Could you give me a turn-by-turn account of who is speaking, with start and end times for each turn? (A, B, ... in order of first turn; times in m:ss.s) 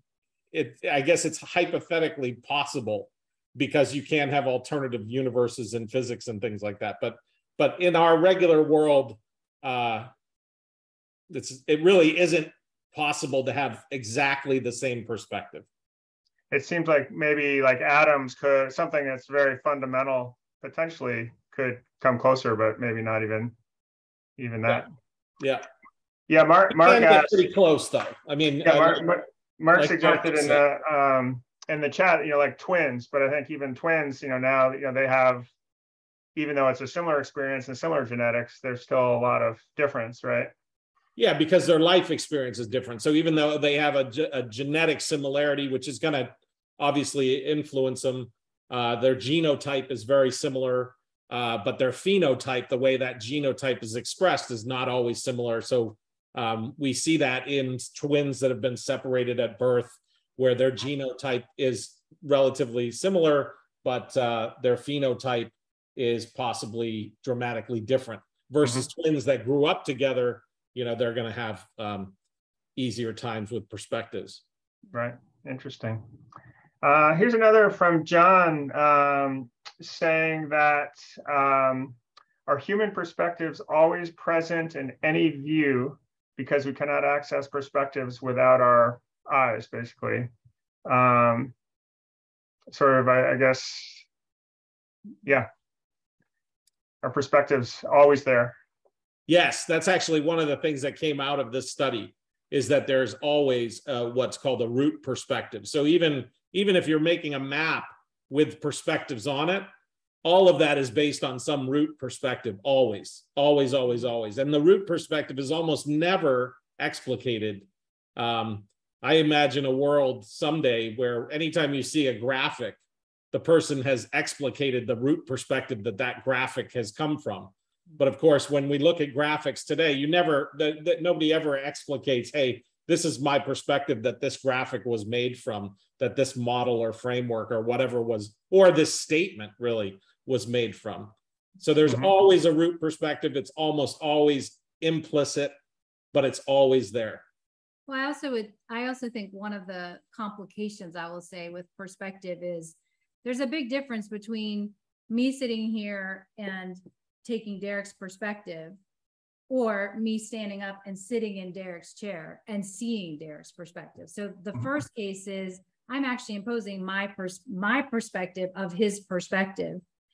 0:00.5-0:10.1 A
0:11.3-0:15.6 A
0:16.5-0:23.5 B
0:24.4-0:24.9 B
0:25.4-0:25.6 A
0:26.3-0:27.4 B
0:26.7-0:29.1 A
0:28.6-0:35.5 B
0:29.7-0:30.6 A
0:36.4-0:40.5 B
0:41.2-1:12.1 A
1:12.8-1:14.4 A
1:14.9-1:16.0 B
1:16.8-1:30.3 B
1:30.9-1:31.5 B
1:32.7-1:34.0 B
1:37.0-1:38.6 B
1:39.3-1:49.7 A
1:50.2-2:02.8 A
2:03.3-2:25.5 A
2:21.9-2:22.1 B
2:26.1-2:27.2 A
2:27.9-2:38.8 C
2:39.5-2:49.8 C